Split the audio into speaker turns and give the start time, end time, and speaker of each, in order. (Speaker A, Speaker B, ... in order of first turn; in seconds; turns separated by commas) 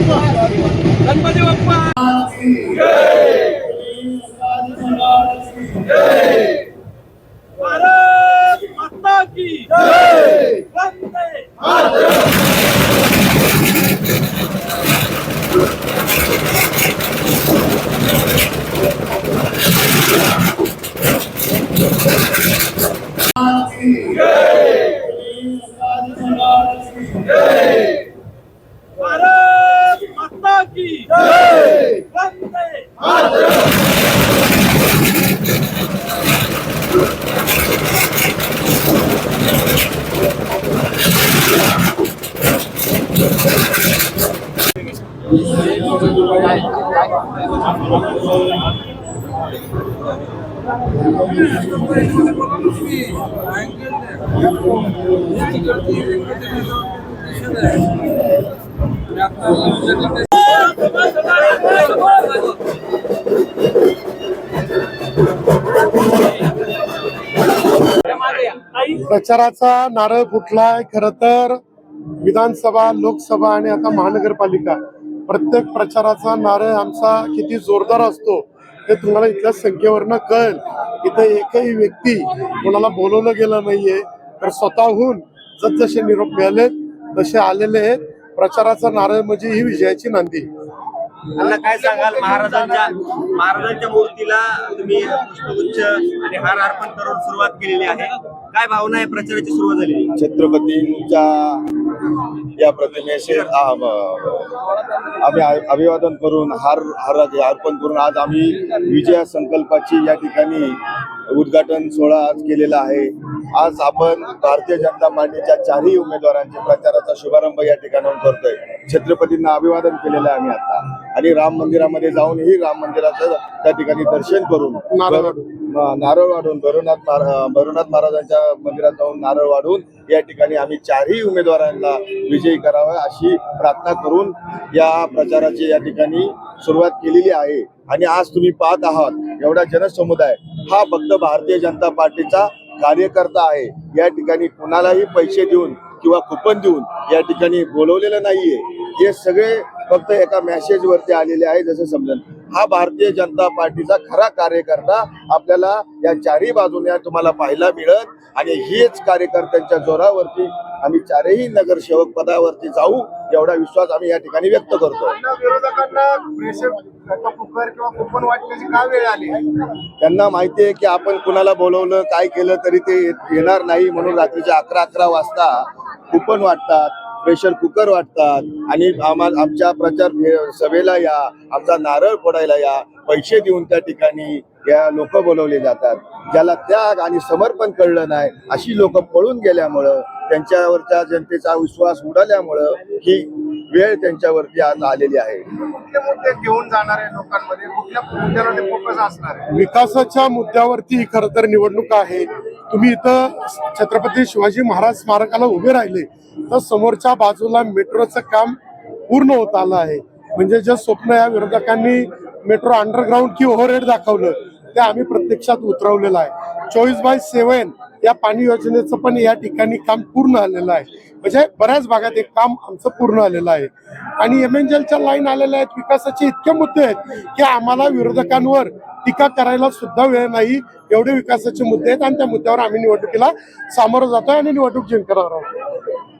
Speaker A: 1.2-1.9, Speaker A: 7.6-11.5, Speaker A: 29.0-33.0, Speaker A: 60.5-62.1, Speaker B: 68.8-71.6, Speaker B: 72.2-90.5, Speaker A: 91.3-100.1, Speaker C: 100.1-101.7, Speaker C: 102.5-104.4, Speaker C: 105.2-165.2, Speaker B: 124.9-125.4, Speaker D: 165.1-169.6, Speaker C: 170.0-195.4, Speaker D: 195.6-199.4, Speaker B: 199.5-208.6, Speaker B: 209.1-235.5